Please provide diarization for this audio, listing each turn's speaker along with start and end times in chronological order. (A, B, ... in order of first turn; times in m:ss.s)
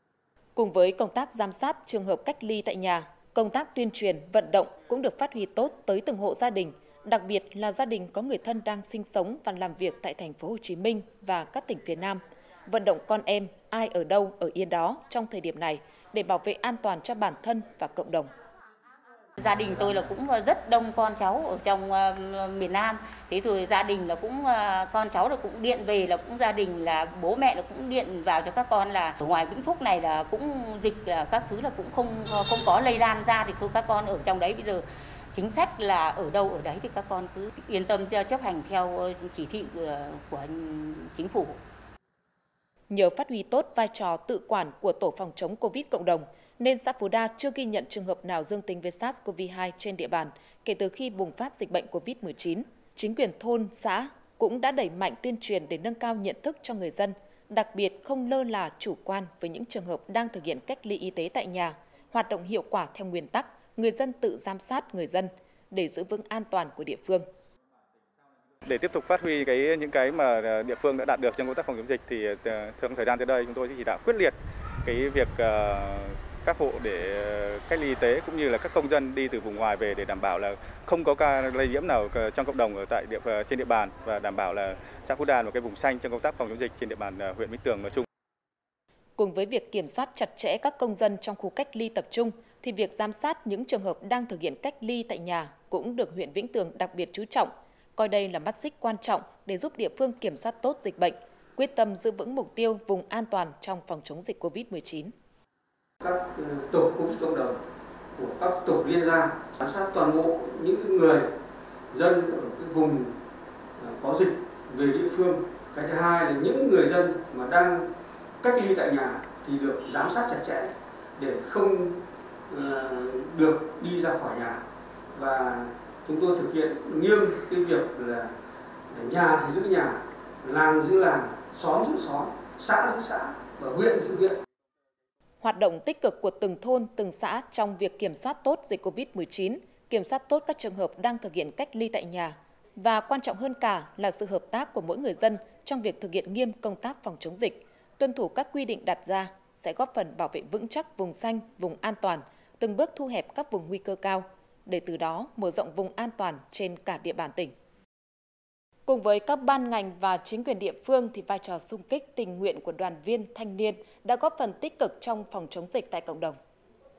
0:00.6-0:18.3 A
0:19.4-0:41.6 B
0:42.9-1:07.3 A
1:08.6-1:28.0 C
1:29.2-1:45.1 A
1:46.0-1:47.6 D
1:48.2-1:51.3 D
1:51.9-1:53.1 D
1:53.8-1:57.9 D
1:58.4-2:04.6 D
2:05.1-2:08.3 D
2:08.9-2:14.4 D
2:15.4-2:37.5 A
2:38.9-2:46.4 A